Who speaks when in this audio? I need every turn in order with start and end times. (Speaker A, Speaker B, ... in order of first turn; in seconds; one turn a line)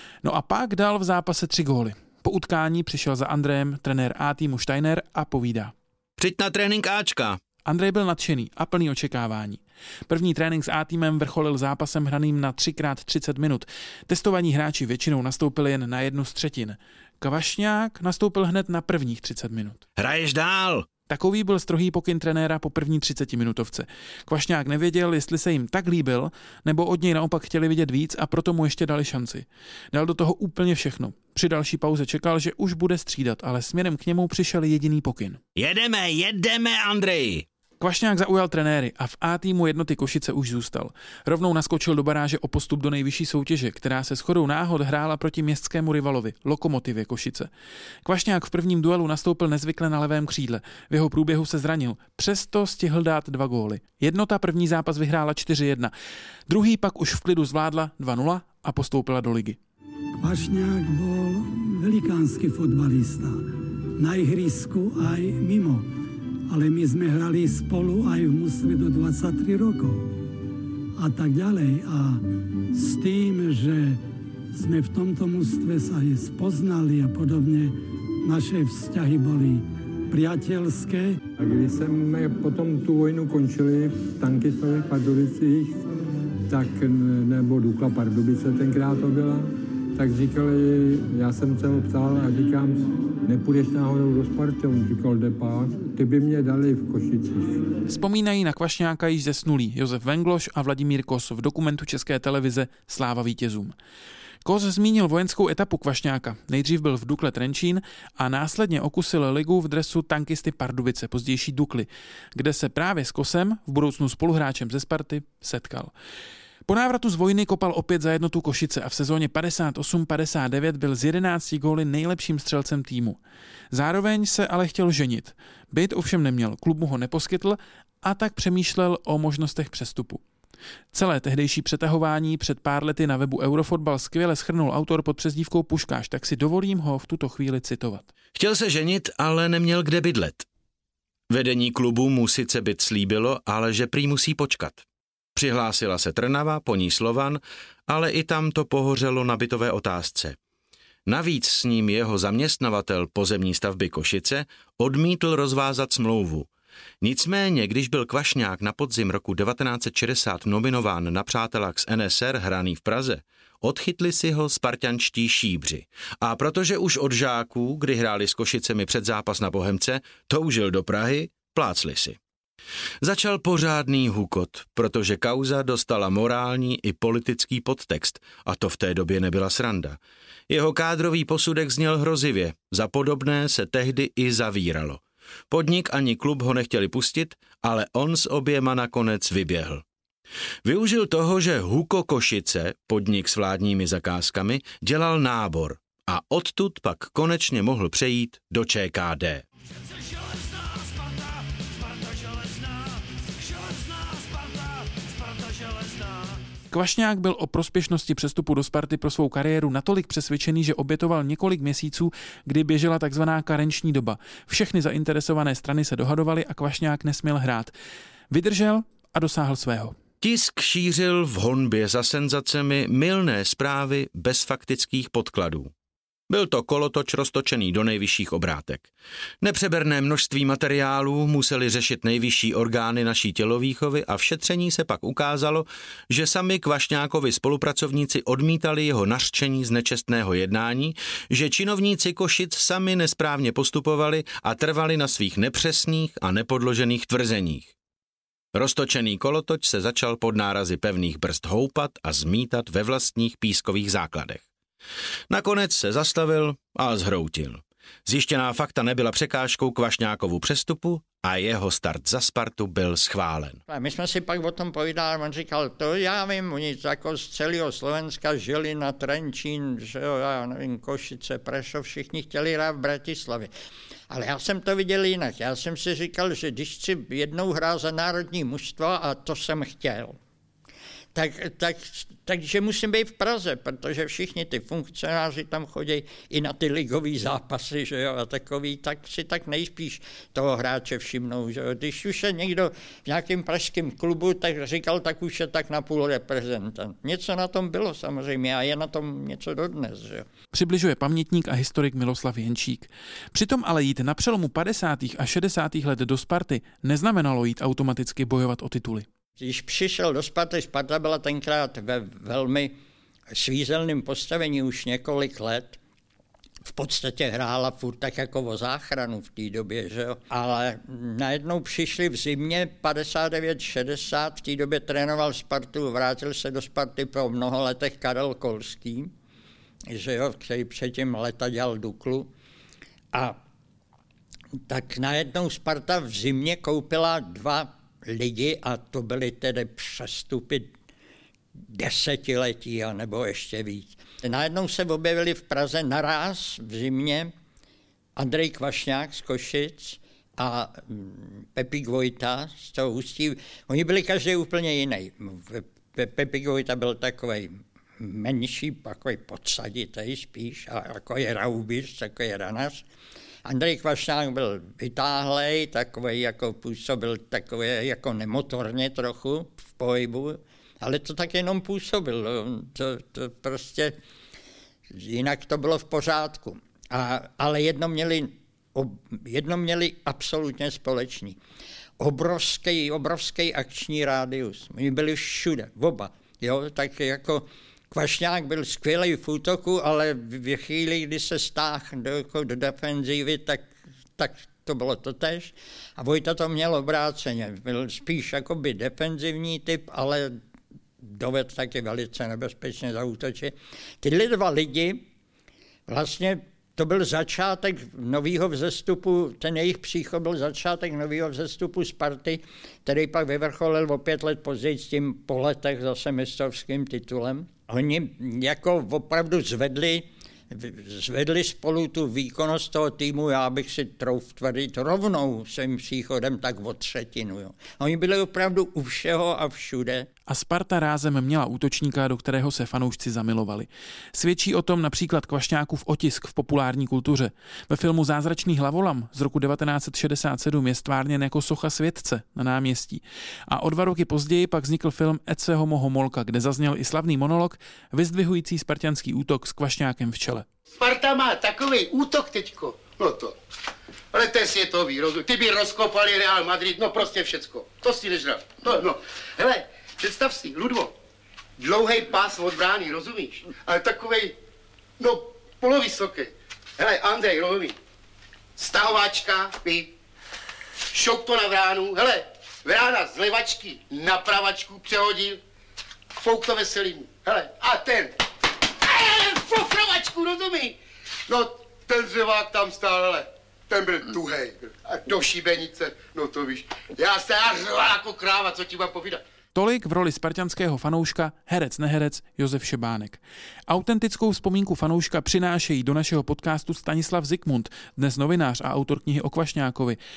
Speaker A: 0.2-5.7
Speaker B: 6.2-7.4
Speaker A: 7.7-19.8
Speaker B: 20.0-20.9
Speaker A: 21.1-35.4
Speaker B: 35.5-37.5
Speaker A: 37.8-47.5
Speaker A: 48.0-55.9
Speaker A: 56.5-59.6
Speaker C: 60.2-63.4
Speaker C: 64.0-65.9
Speaker C: 66.5-70.1
Speaker C: 71.0-72.2
Speaker C: 72.7-74.0
Speaker C: 74.5-81.2
Speaker D: 81.4-85.8
Speaker D: 86.5-97.7
Speaker A: 97.9-103.8
Speaker A: 104.5-115.9
Speaker A: 116.7-123.2
Speaker A: 123.7-130.2
Speaker A: 130.9-138.1
Speaker B: 138.3-140.5
Speaker B: 141.3-144.8
Speaker B: 145.3-150.4
Speaker B: 151.1-156.5
Speaker B: 157.0-172.2
Speaker B: 173.0-180.0
Speaker B: 180.5-189.8
Speaker B: 190.7-199.4
Speaker A: 206.7-217.7
Speaker A: 218.3-220.0
Speaker B: 220.2-225.7
Speaker B: 226.3-228.9
Speaker B: 229.4-247.7
Speaker B: 248.5-254.4
Speaker B: 255.3-263.6
Speaker E: 263.7-273.5
Speaker E: 274.1-280.2
Speaker E: 281.1-300.3
Speaker A: 300.5-309.1
Speaker E: 309.4-312.8
Speaker E: 313.3-315.8
Speaker E: 316.6-329.1
Speaker E: 329.9-332.3
Speaker E: 334.7-340.7
Speaker E: 341.7-347.3
Speaker E: 348.2-362.9
Speaker E: 363.5-374.0
Speaker E: 374.9-381.4
Speaker E: 382.0-400.4
Speaker E: 401.0-405.1
Speaker E: 405.9-430.1
Speaker A: 430.3-450.5
Speaker F: 450.7-453.4
Speaker F: 454.1-460.9
Speaker F: 461.6-464.4
Speaker F: 465.0-467.8
Speaker F: 468.6-469.9
Speaker F: 470.9-475.4
Speaker F: 476.2-478.2
Speaker F: 478.8-480.8
Speaker F: 481.3-489.2
Speaker A: 489.5-500.0